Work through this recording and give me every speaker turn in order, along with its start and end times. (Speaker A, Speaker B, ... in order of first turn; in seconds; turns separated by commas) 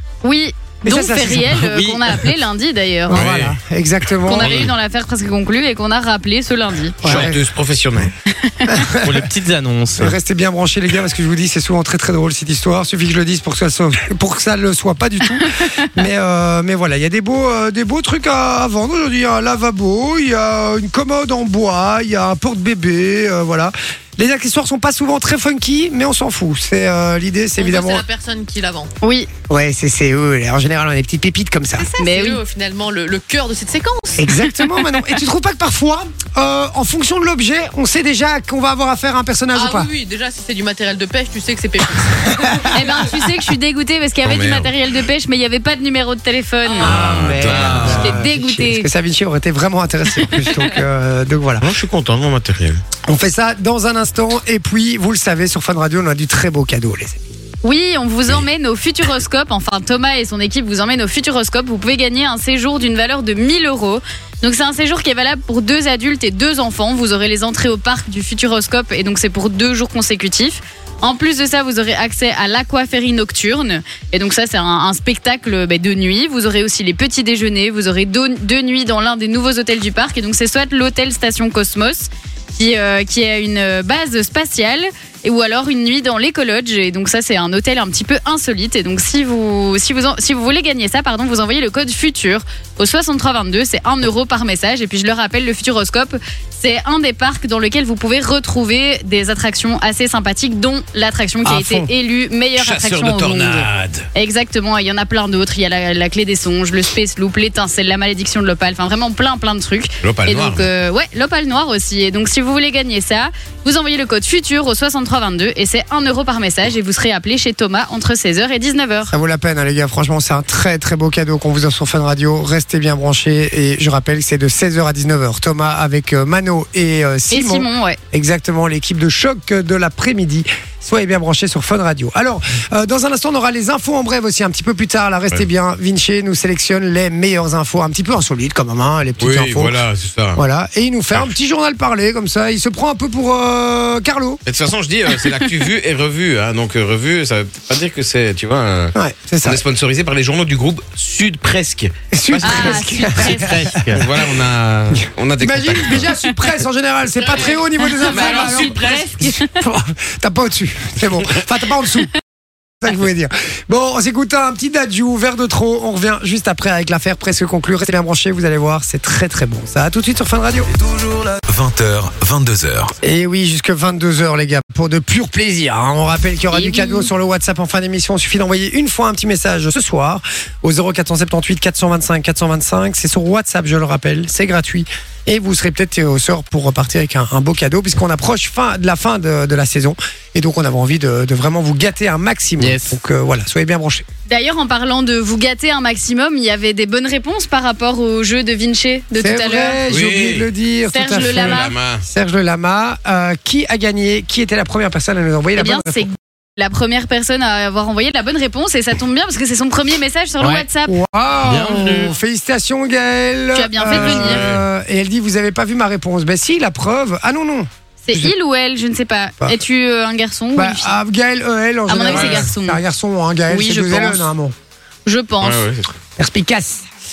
Speaker A: 0.2-3.3, Speaker B: 0.8-1.6, Speaker C: 1.6-2.2, Speaker B: 3.1-4.7, Speaker D: 3.1-3.6, Speaker A: 4.2-7.2, Speaker D: 4.3-4.7, Speaker B: 7.0-7.4, Speaker D: 7.0-8.1, Speaker A: 8.4-8.7, Speaker B: 8.7-9.3, Speaker C: 9.0-10.2, Speaker B: 9.9-28.0, Speaker A: 15.4-15.8, Speaker E: 27.6-28.9, Speaker A: 29.0-29.3, Speaker B: 29.5-31.9, Speaker E: 31.8-34.3, Speaker A: 32.0-32.4, Speaker B: 34.2-39.9, Speaker E: 39.5-42.7, Speaker B: 42.3-42.7, Speaker A: 42.7-46.9, Speaker D: 44.2-44.7, Speaker E: 46.6-46.9, Speaker D: 46.8-48.2, Speaker B: 46.8-51.7, Speaker A: 47.8-48.9, Speaker D: 51.6-52.8, Speaker B: 53.0-57.2, Speaker A: 57.6-119.1, Speaker B: 101.4-101.9, Speaker D: 102.6-104.1, Speaker D: 110.0-110.7, Speaker B: 119.1-139.8, Speaker A: 127.3-128.0, Speaker D: 139.2-140.4, Speaker B: 140.3-144.4, Speaker D: 144.4-153.2, Speaker B: 148.9-149.6, Speaker B: 152.1-154.2, Speaker A: 152.4-153.6, Speaker C: 153.4-154.0, Speaker D: 153.9-156.1, Speaker B: 154.9-162.1, Speaker E: 157.2-157.6, Speaker A: 157.8-159.5, Speaker D: 158.1-158.8, Speaker B: 162.8-170.7, Speaker F: 170.7-172.9, Speaker B: 173.0-194.1, Speaker A: 176.5-177.1, Speaker C: 192.6-193.0, Speaker A: 194.3-199.8, Speaker B: 199.2-206.1, Speaker D: 199.9-200.5, Speaker A: 200.9-201.7, Speaker D: 201.1-202.0, Speaker A: 205.6-210.9, Speaker C: 210.4-210.7, Speaker B: 210.8-218.3, Speaker C: 211.4-212.1, Speaker A: 213.5-214.4, Speaker D: 213.9-214.6, Speaker A: 218.0-221.0, Speaker B: 220.5-224.5, Speaker A: 221.9-222.8, Speaker D: 222.0-222.5, Speaker A: 223.5-224.3, Speaker A: 225.1-225.6, Speaker D: 225.4-225.9, Speaker B: 226.2-226.9